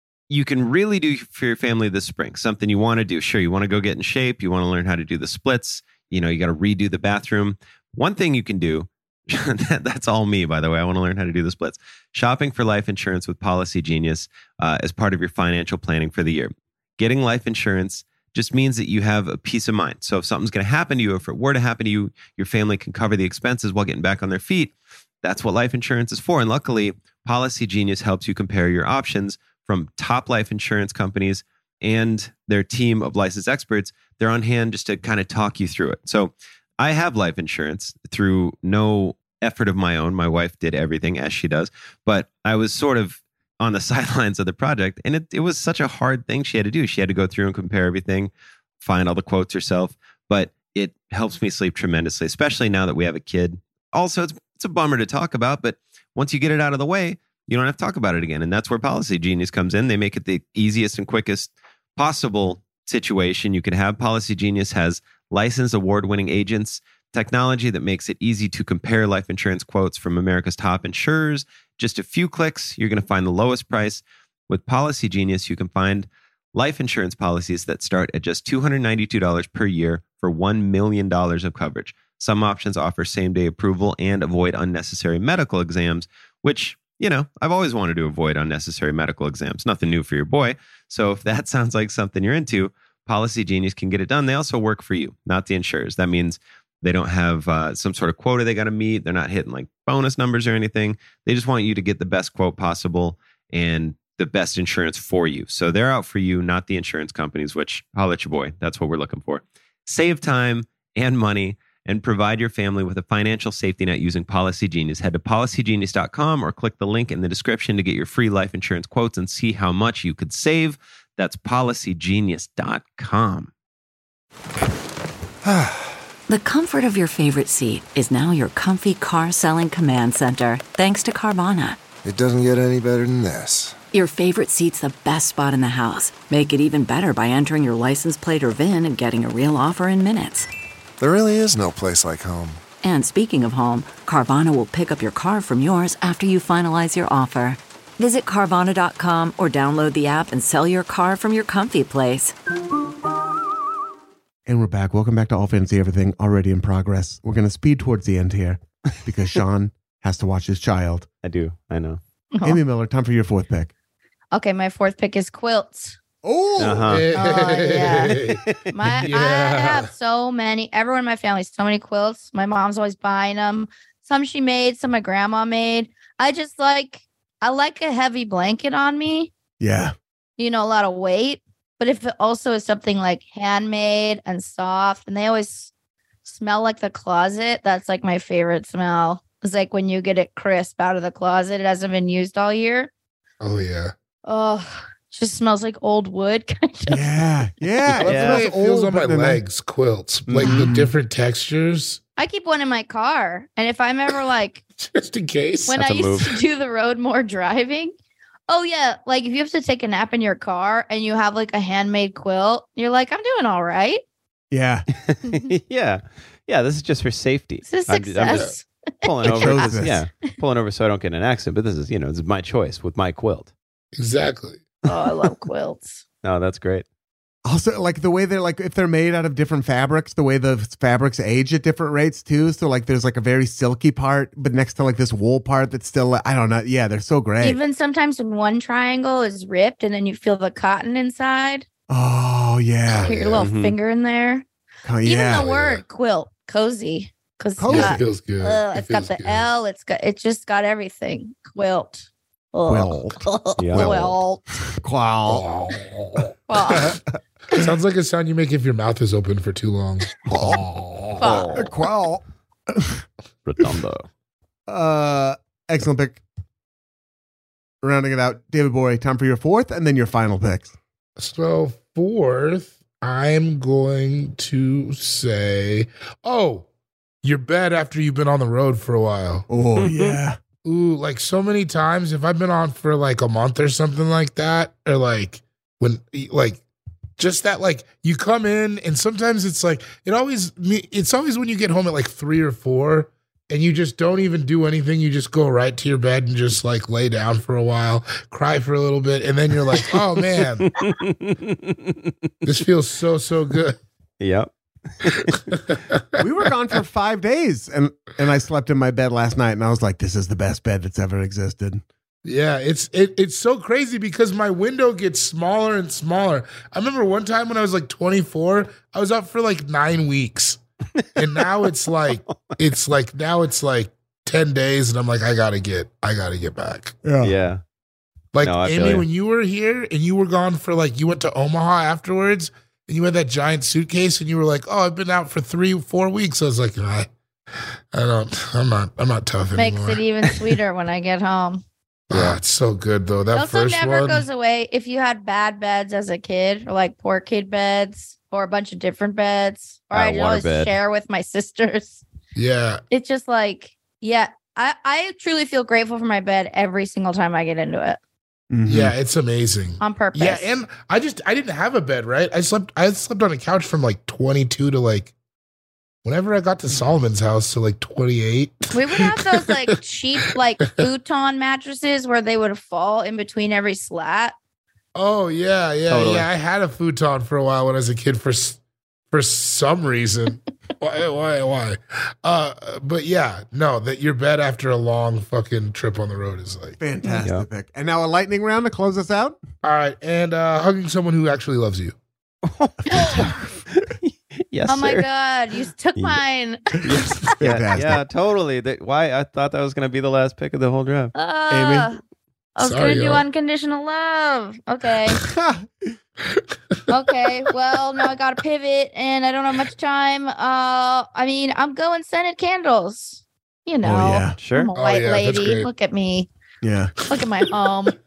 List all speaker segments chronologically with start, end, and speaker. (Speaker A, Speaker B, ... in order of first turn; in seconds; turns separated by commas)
Speaker A: 0.3-123.5, Speaker B: 125.4-125.9, Speaker C: 126.3-131.8, Speaker B: 132.0-133.8, Speaker C: 133.9-140.5, Speaker B: 141.0-142.6, Speaker C: 142.8-152.3, Speaker D: 154.5-161.1, Speaker A: 161.2-162.0, Speaker E: 162.3-162.6, Speaker D: 162.4-163.7, Speaker E: 164.3-166.0, Speaker D: 166.2-167.4, Speaker A: 166.6-167.1, Speaker F: 166.9-168.4, Speaker E: 167.1-168.2, Speaker A: 168.3-168.6, Speaker E: 168.7-179.3, Speaker F: 169.0-169.9, Speaker D: 179.6-179.9, Speaker E: 180.4-185.7, Speaker E: 186.2-192.9, Speaker F: 193.4-193.9, Speaker E: 194.2-197.1, Speaker D: 196.9-199.4, Speaker A: 197.9-198.4, Speaker F: 198.0-202.0, Speaker A: 200.3-200.6, Speaker D: 200.4-200.9, Speaker E: 202.2-204.6, Speaker F: 204.8-205.8, Speaker E: 205.7-207.9, Speaker A: 205.8-206.3, Speaker E: 208.5-214.0, Speaker D: 214.5-214.9, Speaker A: 215.0-218.5, Speaker E: 217.7-219.7, Speaker F: 218.3-218.5, Speaker A: 219.0-223.5, Speaker D: 219.2-220.0, Speaker F: 223.9-224.6, Speaker E: 224.9-226.0, Speaker A: 226.2-226.8, Speaker D: 227.4-237.6, Speaker E: 237.4-241.7, Speaker D: 241.9-243.1, Speaker F: 242.9-243.5, Speaker E: 243.0-244.4, Speaker A: 243.4-243.7, Speaker D: 244.8-245.5, Speaker E: 245.0-254.4, Speaker F: 245.3-245.8, Speaker D: 247.6-248.0, Speaker F: 247.7-249.5, Speaker D: 252.7-253.2, Speaker A: 253.6-253.9, Speaker D: 253.7-254.2, Speaker D: 254.8-255.5, Speaker F: 255.3-257.0, Speaker E: 256.5-256.9, Speaker D: 256.6-257.0, Speaker F: 257.5-261.5, Speaker D: 260.3-260.6, Speaker E: 261.2-261.7, Speaker A: 261.3-261.6, Speaker D: 261.6-263.0, Speaker A: 263.4-264.1, Speaker D: 264.7-266.2, Speaker D: 267.8-270.7, Speaker F: 271.2-276.7, Speaker F: 277.2-279.4, Speaker D: 279.5-280.4, Speaker A: 279.8-280.2, Speaker F: 280.6-286.6, Speaker F: 287.2-300.7, Speaker A: 300.8-302.1, Speaker F: 302.4-303.8, Speaker A: 304.2-305.5, Speaker F: 305.5-306.0, Speaker D: 306.2-311.8, Speaker F: 312.2-320.6, Speaker F: 321.2-326.9, Speaker A: 322.1-322.6, Speaker D: 327.0-327.3, Speaker A: 327.2-327.6, Speaker F: 328.3-337.1, Speaker A: 328.4-329.1, Speaker F: 337.9-340.5, Speaker E: 339.6-341.6, Speaker F: 342.1-344.2, Speaker E: 343.3-352.0, Speaker A: 349.9-350.7, Speaker F: 352.4-352.8, Speaker E: 352.9-358.0, Speaker D: 358.5-358.9, Speaker F: 358.7-365.1, Speaker E: 359.8-360.6, Speaker F: 366.0-369.7, Speaker E: 368.7-374.4, Speaker F: 374.9-378.6, Speaker A: 375.9-376.3, Speaker F: 379.1-386.8, Speaker D: 386.8-389.4, Speaker F: 389.6-392.0, Speaker A: 392.4-395.1, Speaker E: 392.9-393.3, Speaker E: 394.7-396.8, Speaker A: 396.8-401.1, Speaker D: 397.4-398.0, Speaker E: 401.1-402.0, Speaker D: 401.5-401.9, Speaker E: 402.6-405.2, Speaker F: 402.6-403.2, Speaker D: 405.2-406.0, Speaker F: 406.2-406.8, Speaker E: 406.9-416.3, Speaker D: 413.8-414.4, Speaker A: 414.4-414.7, Speaker F: 414.8-415.7, Speaker D: 416.6-416.9, Speaker E: 417.1-417.9